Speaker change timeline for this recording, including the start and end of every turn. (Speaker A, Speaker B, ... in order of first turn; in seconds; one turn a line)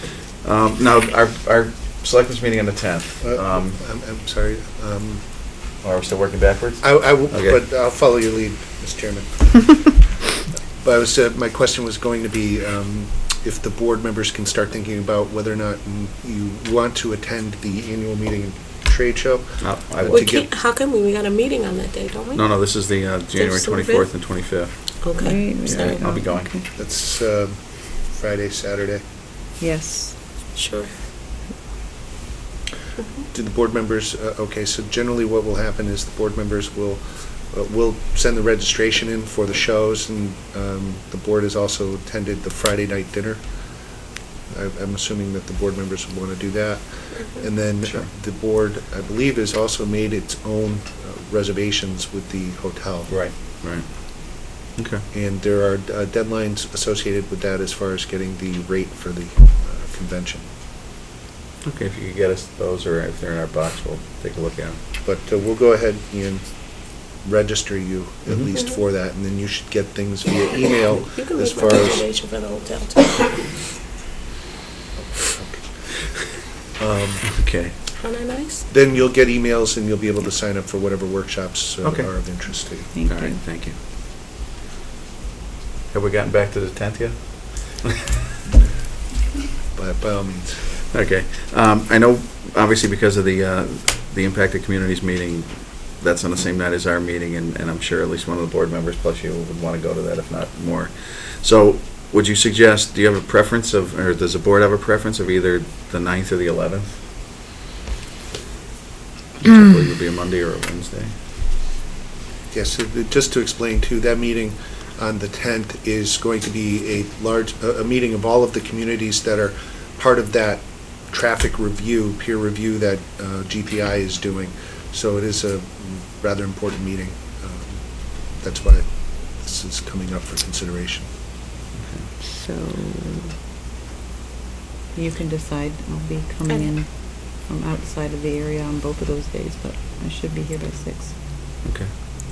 Speaker A: 0.4-3.8
Speaker B: 3.2-5.2
Speaker A: 5.8-7.6
Speaker B: 6.8-10.1
Speaker B: 10.8-20.5
Speaker A: 19.6-20.3
Speaker C: 20.1-22.5
Speaker A: 22.3-25.1
Speaker C: 23.3-24.1
Speaker C: 25.0-26.0
Speaker D: 25.2-26.7
Speaker A: 25.6-26.5
Speaker B: 26.7-29.0
Speaker D: 29.6-30.1
Speaker C: 30.5-30.9
Speaker B: 33.3-43.9
Speaker B: 44.5-53.2
Speaker A: 47.8-48.1
Speaker A: 53.1-55.0
Speaker B: 55.1-60.5
Speaker A: 61.6-64.8
Speaker B: 65.0-72.0
Speaker C: 71.0-73.4
Speaker B: 75.2-75.7
Speaker B: 76.8-77.3
Speaker A: 77.3-77.7
Speaker C: 78.0-78.7
Speaker B: 78.7-82.9
Speaker A: 81.8-82.1
Speaker A: 82.8-83.8
Speaker D: 82.9-83.4
Speaker A: 85.9-87.9
Speaker B: 89.7-90.7
Speaker A: 90.9-107.0
Speaker A: 109.4-111.1
Speaker B: 112.5-131.1
Speaker A: 131.7-132.1
Speaker D: 132.2-133.3
Speaker D: 134.9-141.1
Speaker A: 141.6-141.9